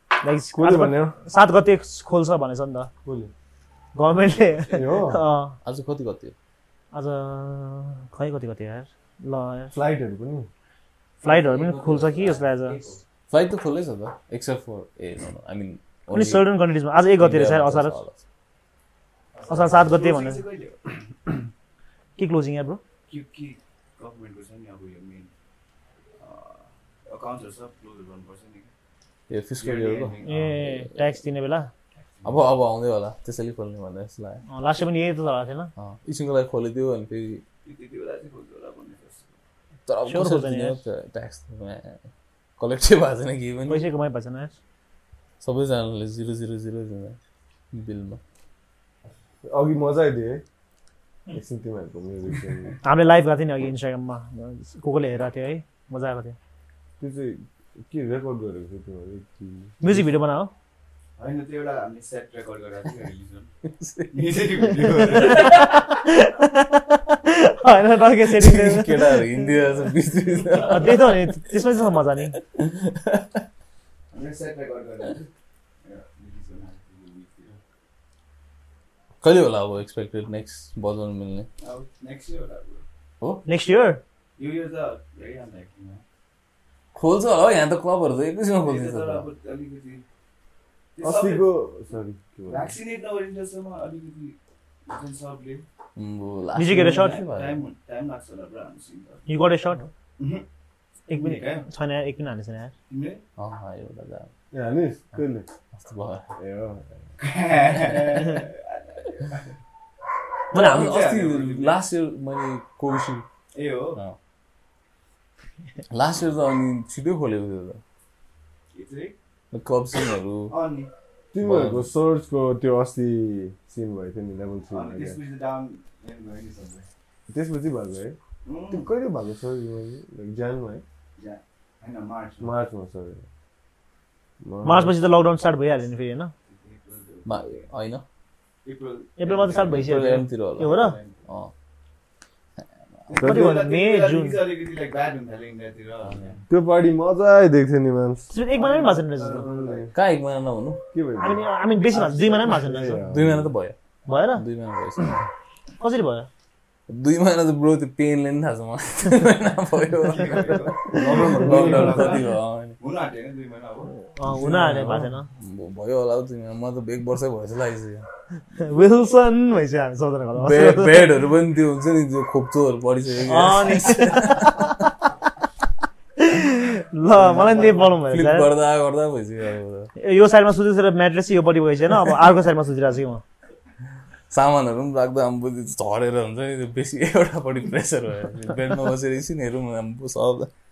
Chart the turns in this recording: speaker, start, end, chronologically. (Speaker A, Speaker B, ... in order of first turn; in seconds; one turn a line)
Speaker A: 0.2-2.9
Speaker B: 0.5-1.1
Speaker B: 3.0-3.3
Speaker A: 4.0-5.6
Speaker B: 4.7-5.2
Speaker C: 5.7-6.3
Speaker A: 6.9-9.7
Speaker B: 9.7-10.5
Speaker A: 11.2-12.8
Speaker D: 11.2-13.0
Speaker C: 13.3-16.5
Speaker A: 16.1-18.0
Speaker C: 17.2-18.2
Speaker D: 19.3-21.4
Speaker A: 19.5-20.4
Speaker A: 22.2-22.8
Speaker D: 23.1-25.3
Speaker D: 26.2-28.7
Speaker C: 29.3-31.0
Speaker D: 29.6-30.4
Speaker A: 30.2-31.7
Speaker D: 32.1-32.5
Speaker C: 32.2-34.4
Speaker A: 34.5-35.7
Speaker C: 35.8-37.4
Speaker D: 37.6-39.3
Speaker C: 39.9-42.1
Speaker A: 40.1-40.8
Speaker C: 42.6-43.9
Speaker A: 43.7-44.5
Speaker C: 45.4-47.2
Speaker C: 47.7-48.2
Speaker B: 49.5-50.4
Speaker B: 51.3-52.8
Speaker A: 52.8-56.4
Speaker B: 57.0-60.1
Speaker A: 59.8-60.5
Speaker D: 61.2-63.5
Speaker C: 63.6-64.4
Speaker D: 64.1-65.8
Speaker A: 65.0-69.5
Speaker C: 68.2-71.5
Speaker D: 70.2-71.0
Speaker A: 70.7-72.3
Speaker C: 72.3-73.4
Speaker D: 74.1-75.3
Speaker D: 75.8-77.6
Speaker C: 79.2-81.5
Speaker D: 81.6-82.8
Speaker A: 83.5-84.0
Speaker D: 84.4-86.0
Speaker C: 87.0-89.3
Speaker D: 88.6-90.0
Speaker D: 91.0-91.4
Speaker B: 91.0-92.8
Speaker D: 92.5-95.7
Speaker C: 96.0-97.6
Speaker A: 96.5-97.2
Speaker D: 96.7-99.3
Speaker A: 99.3-99.8
Speaker D: 100.2-100.5
Speaker D: 101.1-101.7
Speaker A: 101.1-102.7
Speaker D: 102.9-103.2
Speaker C: 103.4-104.3
Speaker B: 104.5-105.5
Speaker C: 105.7-106.3
Speaker B: 106.4-107.0
Speaker D: 107.2-109.5
Speaker C: 110.5-113.2
Speaker A: 110.5-110.9
Speaker D: 110.5-111.8
Speaker D: 113.5-114.0
Speaker C: 115.9-117.8
Speaker D: 118.7-119.2
Speaker C: 119.5-120.5
Speaker D: 120.5-120.9
Speaker B: 121.3-125.2
Speaker C: 121.4-121.9
Speaker D: 124.7-126.9
Speaker B: 127.3-128.2
Speaker D: 128.4-128.9
Speaker B: 128.7-130.8
Speaker D: 131.2-132.5
Speaker B: 132.4-133.2
Speaker B: 134.4-135.0
Speaker A: 134.6-136.3
Speaker D: 136.5-137.7
Speaker C: 137.3-138.1
Speaker D: 138.7-139.9
Speaker A: 139.2-141.0
Speaker C: 139.6-141.5
Speaker D: 140.6-141.2
Speaker D: 143.1-146.4
Speaker B: 143.1-143.6
Speaker A: 143.2-144.4
Speaker C: 146.0-146.4
Speaker B: 146.5-148.3
Speaker A: 148.3-149.5
Speaker D: 148.5-149.9
Speaker B: 149.2-149.9
Speaker C: 149.9-150.8
Speaker B: 150.9-151.5
Speaker A: 151.2-153.0
Speaker D: 151.9-152.6
Speaker B: 152.4-153.5
Speaker C: 153.0-153.8
Speaker A: 154.1-154.4
Speaker C: 154.3-155.2
Speaker A: 155.8-156.3
Speaker C: 156.9-162.8
Speaker D: 160.0-162.2
Speaker B: 160.9-162.2
Speaker D: 162.8-163.9
Speaker A: 164.2-165.3
Speaker C: 164.3-168.1
Speaker A: 168.5-171.1
Speaker C: 170.4-174.7
Speaker A: 173.3-174.9
Speaker A: 176.2-178.5
Speaker C: 177.2-179.9
Speaker A: 180.0-183.2
Speaker C: 184.3-190.5